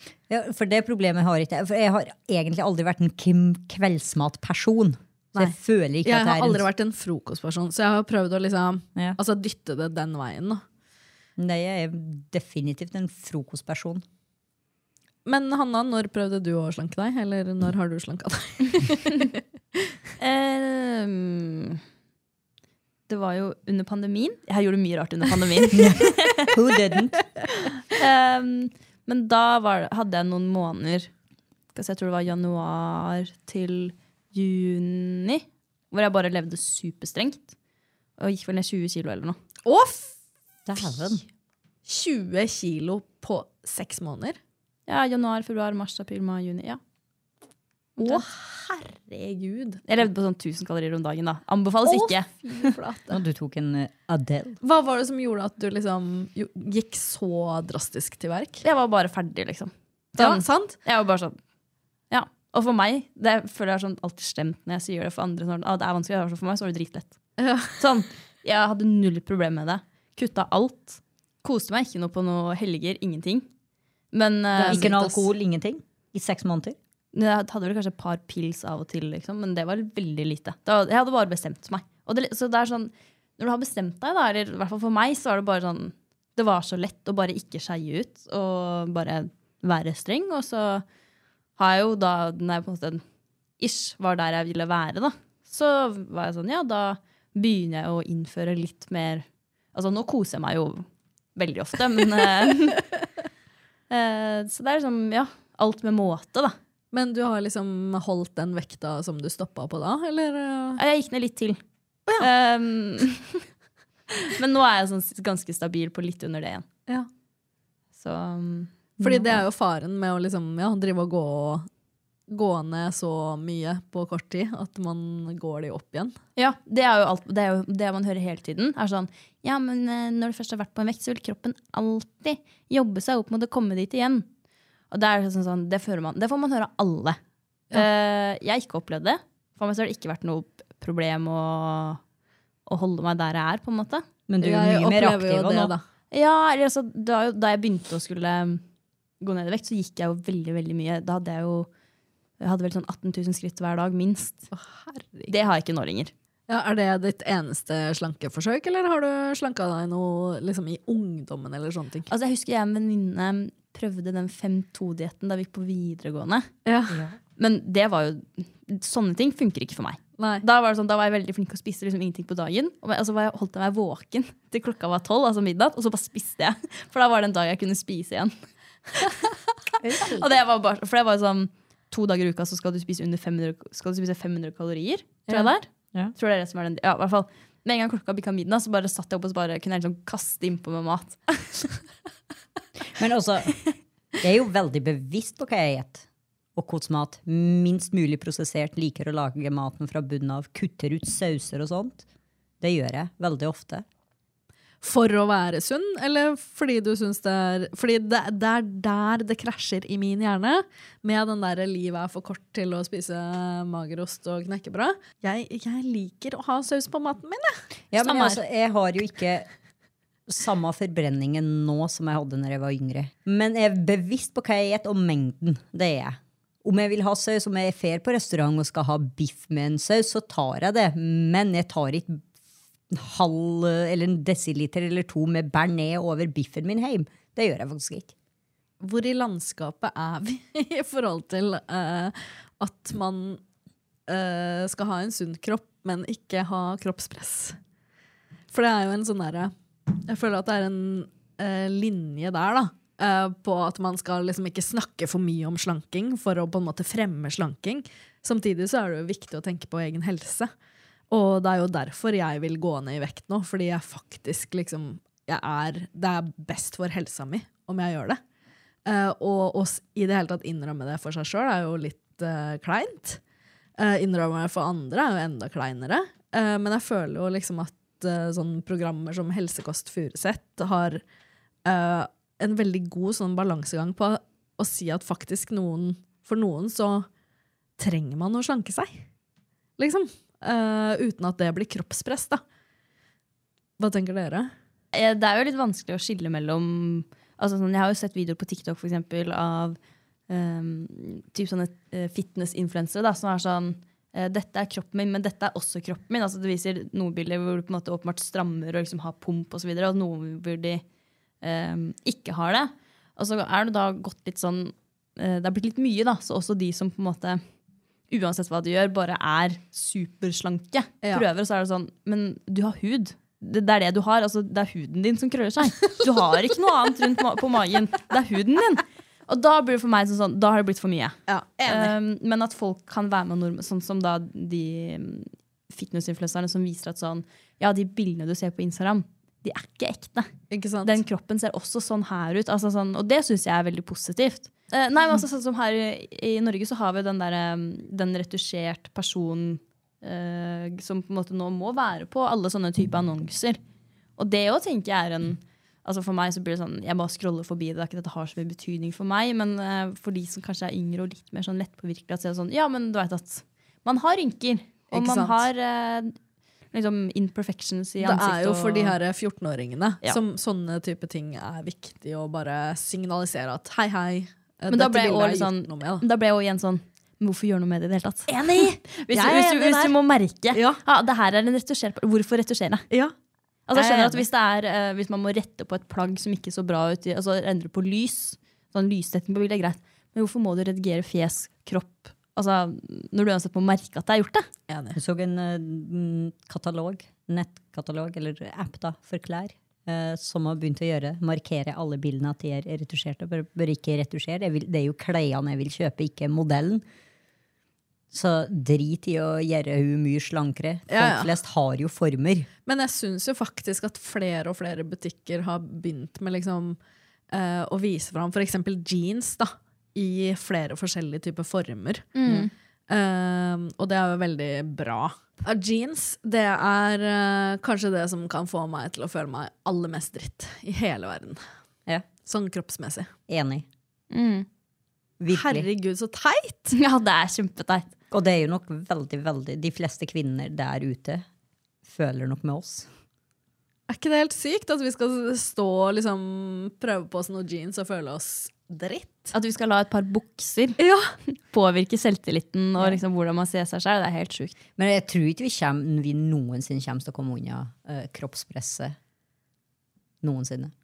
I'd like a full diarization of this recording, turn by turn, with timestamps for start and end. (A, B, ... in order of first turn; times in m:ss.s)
0:00.3-0:06.6 A
0:05.4-0:10.6 B
0:11.4-0:14.0 A
0:15.2-0:19.4 B
0:20.2-0:21.8 C
0:23.1-0:26.5 C
0:25.7-0:27.3 A
0:27.9-0:31.1 C
0:31.7-0:37.5 C
0:38.2-0:39.4 C
0:39.6-0:40.1 B
0:40.6-0:41.2 A
0:41.8-0:44.4 B
0:44.9-0:46.8 C
0:48.0-0:48.2 C
0:48.0-0:49.8 B
0:49.9-0:52.3 C
0:51.8-0:53.2 B
0:53.1-0:54.6 A
0:54.6-0:58.6 B
0:58.6-1:01.4 C
1:00.2-1:00.8 B
1:02.1-1:07.2 C
1:07.4-1:07.8 B
1:07.8-1:13.4 C
1:14.1-1:14.9 C
1:14.5-1:15.2 B
1:14.7-1:16.8 A
1:17.1-1:30.8 C
1:31.6-1:33.0 C
1:33.6-1:42.8 C
1:43.9-1:46.5 C
1:46.9-1:50.8 B
1:50.8-1:51.6 C
1:52.2-1:53.4 C
1:54.3-1:56.6 C
1:58.0-1:59.2 C
1:59.0-2:01.7 B
2:02.3-2:06.2 B
2:06.4-2:14.2 C
2:14.9-2:17.2 C
2:17.7-2:22.0 C
2:22.6-2:24.0 C
2:24.3-2:25.7 A
2:24.4-2:25.8 B
2:26.1-2:28.6 C
2:29.2-2:31.7 C
2:32.4-2:34.5 C
2:34.5-2:35.3 B
2:35.3-2:36.1 C
2:36.5-2:42.1 B
2:42.1-2:46.5 C
2:46.6-2:47.0 B
2:46.9-2:47.2 A
2:47.4-2:58.3 C
2:50.2-2:50.4 B
2:59.8-3:00.3 A
3:00.1-3:11.6 C
3:12.9-3:13.6 A
3:14.2-3:22.0 A
3:22.6-3:23.8 A
3:24.8-3:37.5 B
3:37.9-3:39.5 A
3:40.3-3:52.2 A
3:52.9-3:58.1 A
3:58.8-4:03.4 B
4:04.1-4:07.6 B
4:08.5-4:09.5 B
4:10.0-4:20.5 B
4:21.1-4:28.2 B
4:28.8-4:33.2 B
4:33.8-4:41.0 B
4:41.6-4:47.1 B
4:47.8-4:49.0 B
4:49.8-4:52.4 B
4:53.8-4:54.5 B
4:54.9-4:59.8 C
5:00.3-5:10.8 C
5:11.4-5:17.4 C
5:18.1-5:40.3 C
5:31.3-5:31.9 B
5:40.5-5:41.0 B
5:40.8-5:53.6 C
5:54.2-6:06.1 C
6:04.9-6:05.4 B
6:06.7-6:09.0 C
6:08.0-6:16.0 B
6:14.7-6:22.9 C
6:18.3-6:20.0 B
6:20.5-6:20.8 B
6:23.7-6:34.5 C
6:23.7-6:24.2 B
6:34.7-6:35.0 B
6:34.9-6:46.8 A
6:48.1-6:52.5 A
6:50.9-6:51.3 B
6:52.6-6:56.8 B
6:57.3-7:02.4 B
7:02.1-7:02.5 C
7:02.9-7:11.4 B
7:12.2-7:13.1 B
7:13.3-7:13.6 A
7:14.1-7:14.5 C
7:15.2-7:15.7 A
7:15.3-7:16.7 B
7:16.7-7:17.9 C
7:18.1-7:21.2 A
7:21.8-7:22.9 A
7:23.9-7:29.3 B
7:29.3-7:34.6 C
7:30.8-7:31.1 B
7:34.8-7:39.0 A
7:40.2-7:40.7 A